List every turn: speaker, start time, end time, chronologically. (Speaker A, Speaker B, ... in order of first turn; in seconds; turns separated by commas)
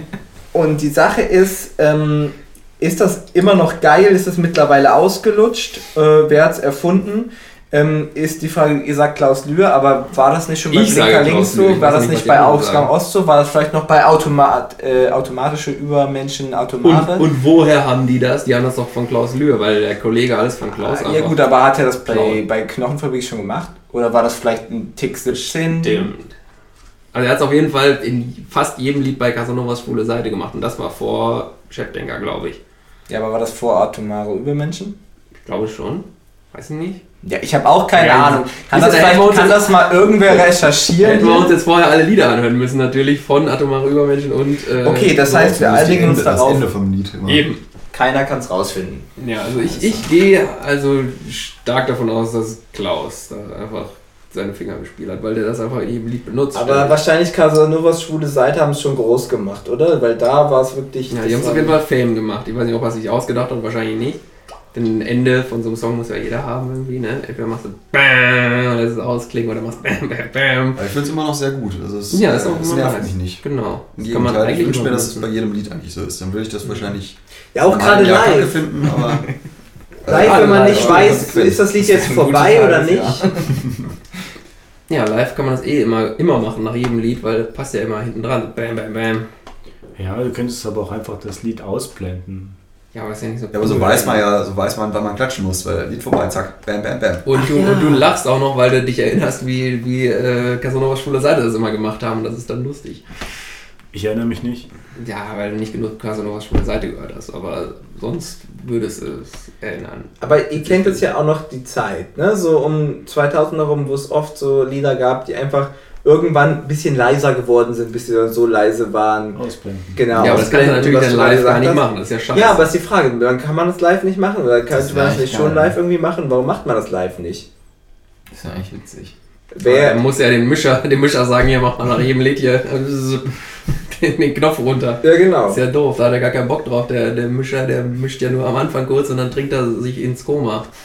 Speaker A: 0.5-17.3, Speaker B: 10.7-12.9, Speaker B: 16.8-21.5, Speaker A: 20.8-26.1, Speaker B: 22.1-22.4, Speaker B: 25.7-26.3, Speaker B: 27.1-32.6, Speaker A: 33.1-35.0, Speaker B: 35.5-37.0, Speaker A: 37.2-41.5, Speaker B: 38.0-46.5, Speaker A: 44.8-46.7, Speaker C: 45.3-47.5, Speaker B: 47.2-47.6, Speaker A: 47.9-49.1, Speaker B: 49.2-57.0, Speaker A: 49.6-50.0, Speaker A: 56.5-61.8, Speaker B: 61.1-64.2, Speaker B: 64.7-70.8, Speaker C: 70.8-79.3, Speaker B: 72.1-75.3, Speaker A: 77.5-78.7, Speaker D: 79.0-79.3, Speaker C: 80.0-81.7, Speaker A: 80.1-83.3, Speaker B: 80.1-81.5, Speaker D: 81.9-83.4, Speaker B: 84.9-89.3, Speaker E: 90.0-92.5, Speaker B: 92.9-94.3, Speaker C: 93.5-97.3, Speaker B: 97.2-103.0, Speaker A: 97.3-98.1, Speaker E: 103.9-104.7, Speaker B: 105.0-111.1, Speaker A: 110.2-119.4, Speaker E: 119.3-120.0, Speaker A: 120.0-127.5, Speaker B: 120.1-122.7, Speaker C: 120.2-120.4, Speaker D: 124.7-125.8, Speaker D: 128.3-129.1, Speaker A: 129.5-130.0, Speaker B: 129.6-140.7, Speaker A: 135.0-135.6